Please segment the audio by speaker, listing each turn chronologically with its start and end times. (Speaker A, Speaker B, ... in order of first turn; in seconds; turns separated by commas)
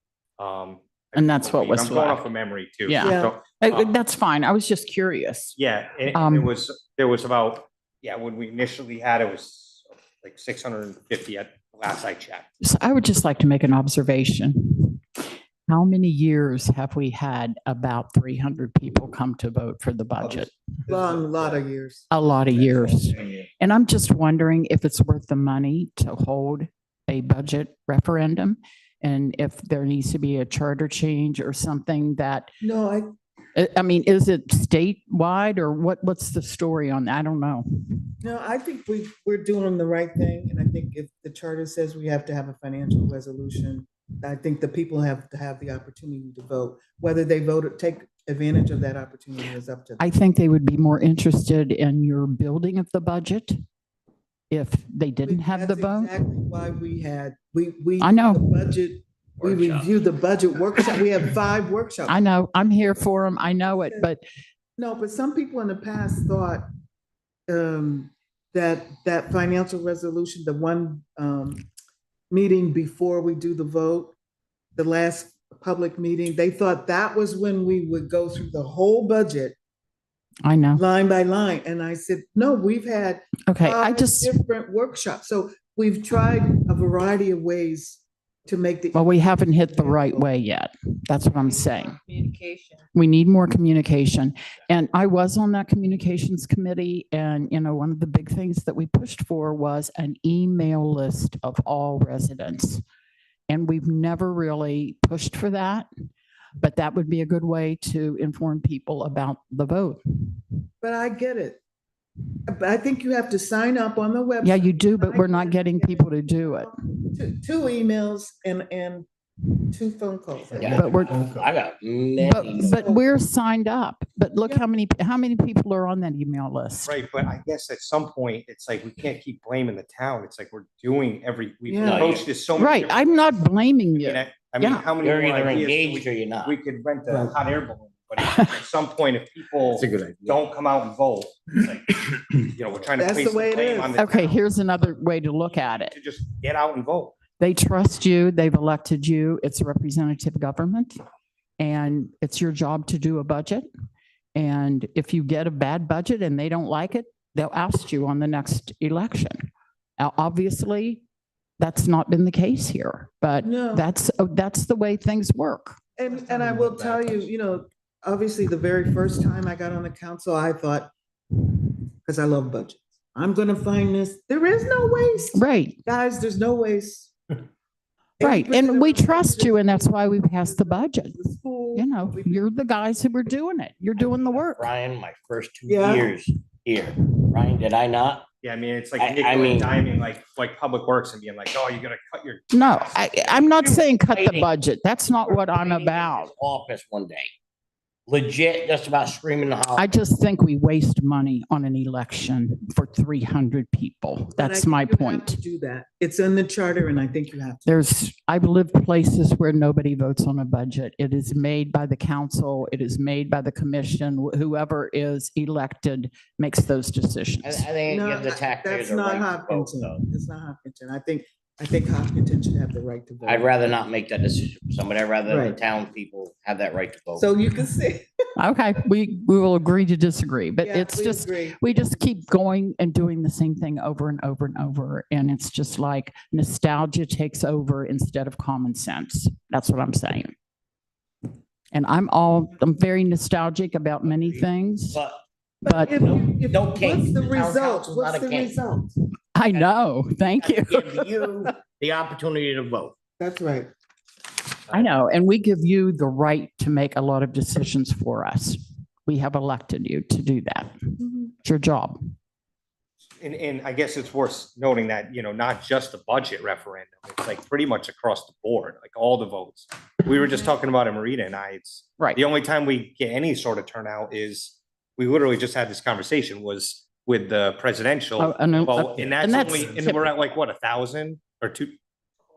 Speaker A: 0.4-3.9, Speaker B: 1.1-2.3, Speaker B: 2.9-5.6, Speaker C: 3.0-3.4, Speaker A: 5.6-12.5, Speaker B: 6.1-6.5, Speaker B: 12.6-15.0, Speaker B: 15.7-20.5, Speaker A: 20.2-21.6, Speaker C: 20.9-22.1, Speaker B: 22.1-32.5, Speaker D: 22.5-23.4, Speaker C: 32.6-33.1, Speaker B: 33.5-38.0, Speaker C: 38.2-50.0, Speaker B: 50.0-53.5, Speaker B: 54.5-56.2, Speaker C: 55.2-62.2, Speaker B: 58.0-58.6, Speaker D: 59.4-59.9, Speaker B: 62.1-64.2, Speaker C: 64.8-66.6, Speaker C: 67.5-71.7, Speaker C: 72.3-74.2, Speaker C: 74.8-79.6, Speaker B: 80.5-80.8, Speaker C: 80.7-90.3, Speaker B: 83.5-84.3, Speaker B: 88.9-92.0, Speaker B: 92.9-102.8, Speaker B: 103.5-105.9, Speaker B: 106.6-110.4, Speaker C: 110.8-111.6, Speaker C: 112.5-119.1, Speaker B: 114.4-116.7, Speaker C: 119.7-120.9, Speaker D: 120.6-122.8, Speaker B: 120.7-121.2, Speaker A: 120.8-121.5, Speaker B: 122.2-126.9, Speaker C: 122.6-123.0, Speaker A: 126.9-133.4, Speaker C: 131.7-132.1, Speaker D: 131.8-132.2, Speaker B: 132.6-134.9, Speaker A: 133.9-144.4, Speaker D: 135.0-136.5, Speaker C: 137.1-137.4, Speaker D: 139.7-140.4, Speaker C: 143.0-144.0, Speaker B: 144.0-145.9, Speaker A: 145.5-147.2, Speaker B: 147.4-151.0, Speaker B: 151.6-153.7, Speaker B: 154.3-159.5, Speaker B: 160.0-161.0, Speaker B: 161.6-165.8, Speaker C: 163.4-163.9, Speaker C: 166.0-170.9, Speaker C: 172.1-177.1, Speaker B: 175.3-175.8, Speaker C: 178.2-182.5, Speaker B: 178.2-181.2, Speaker B: 181.7-184.7, Speaker D: 184.1-188.3, Speaker C: 185.7-186.2, Speaker A: 188.4-193.6, Speaker D: 189.0-189.9, Speaker B: 192.5-196.3, Speaker D: 193.6-194.5, Speaker D: 195.2-197.3, Speaker D: 198.1-199.9, Speaker B: 199.8-205.4, Speaker C: 204.4-207.7, Speaker B: 207.7-217.7, Speaker D: 217.4-220.0, Speaker C: 217.9-223.6, Speaker D: 223.2-227.3, Speaker C: 225.3-225.6, Speaker C: 227.2-228.1, Speaker B: 228.4-240.3, Speaker C: 230.6-231.6, Speaker B: 241.7-245.0, Speaker D: 244.9-245.2, Speaker B: 245.6-246.0, Speaker C: 245.6-249.0, Speaker D: 246.0-248.6, Speaker B: 249.3-251.5, Speaker D: 250.4-253.0, Speaker C: 253.2-253.7, Speaker B: 254.7-260.8, Speaker C: 261.0-261.3, Speaker B: 261.4-261.9, Speaker A: 263.2-281.8, Speaker B: 278.2-280.1